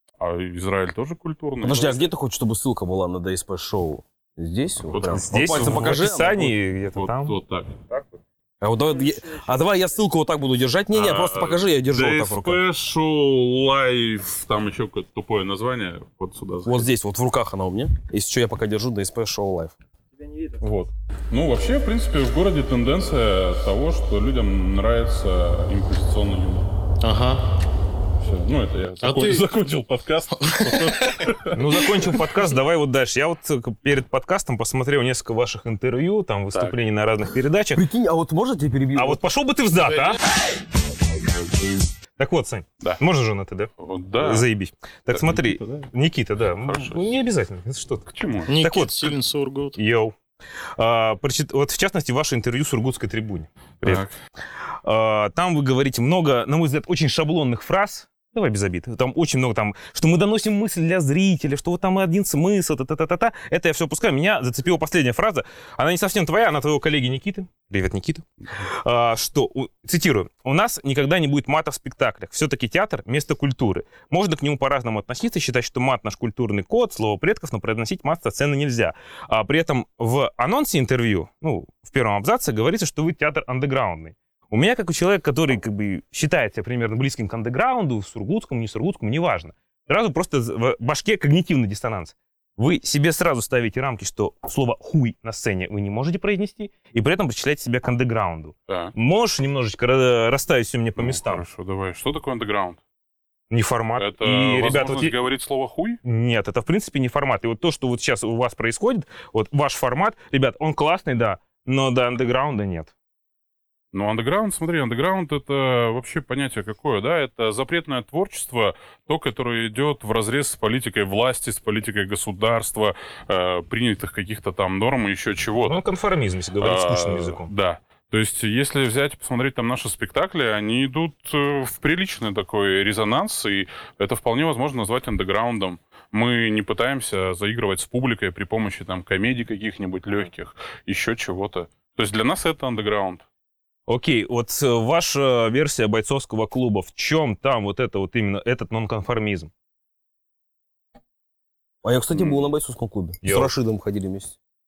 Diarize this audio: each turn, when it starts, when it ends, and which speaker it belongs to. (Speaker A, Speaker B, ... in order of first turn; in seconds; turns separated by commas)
Speaker A: 0.2-2.1, Speaker B: 1.6-6.4, Speaker A: 4.9-7.7, Speaker C: 5.1-7.4, Speaker C: 7.9-8.2, Speaker B: 8.6-12.6, Speaker A: 10.9-16.9, Speaker B: 16.6-19.8, Speaker A: 20.6-26.7, Speaker D: 27.0-27.4, Speaker A: 28.2-31.6, Speaker D: 29.0-29.4, Speaker D: 30.4-31.3, Speaker C: 31.5-37.8, Speaker B: 37.7-39.2, Speaker C: 39.0-40.2, Speaker C: 42.2-49.1, Speaker A: 43.8-44.5, Speaker A: 45.1-45.9, Speaker A: 46.6-47.1, Speaker A: 48.1-48.6, Speaker D: 48.5-49.8, Speaker C: 49.8-50.1, Speaker C: 50.8-54.0, Speaker A: 53.8-54.1, Speaker C: 54.8-101.4, Speaker A: 98.7-98.9, Speaker A: 101.0-102.8, Speaker C: 103.5-105.2, Speaker A: 104.0-106.0, Speaker C: 106.0-112.9, Speaker A: 113.9-125.8, Speaker C: 125.7-127.5, Speaker A: 126.6-143.2, Speaker C: 143.9-149.5, Speaker B: 151.8-154.4, Speaker C: 153.2-153.5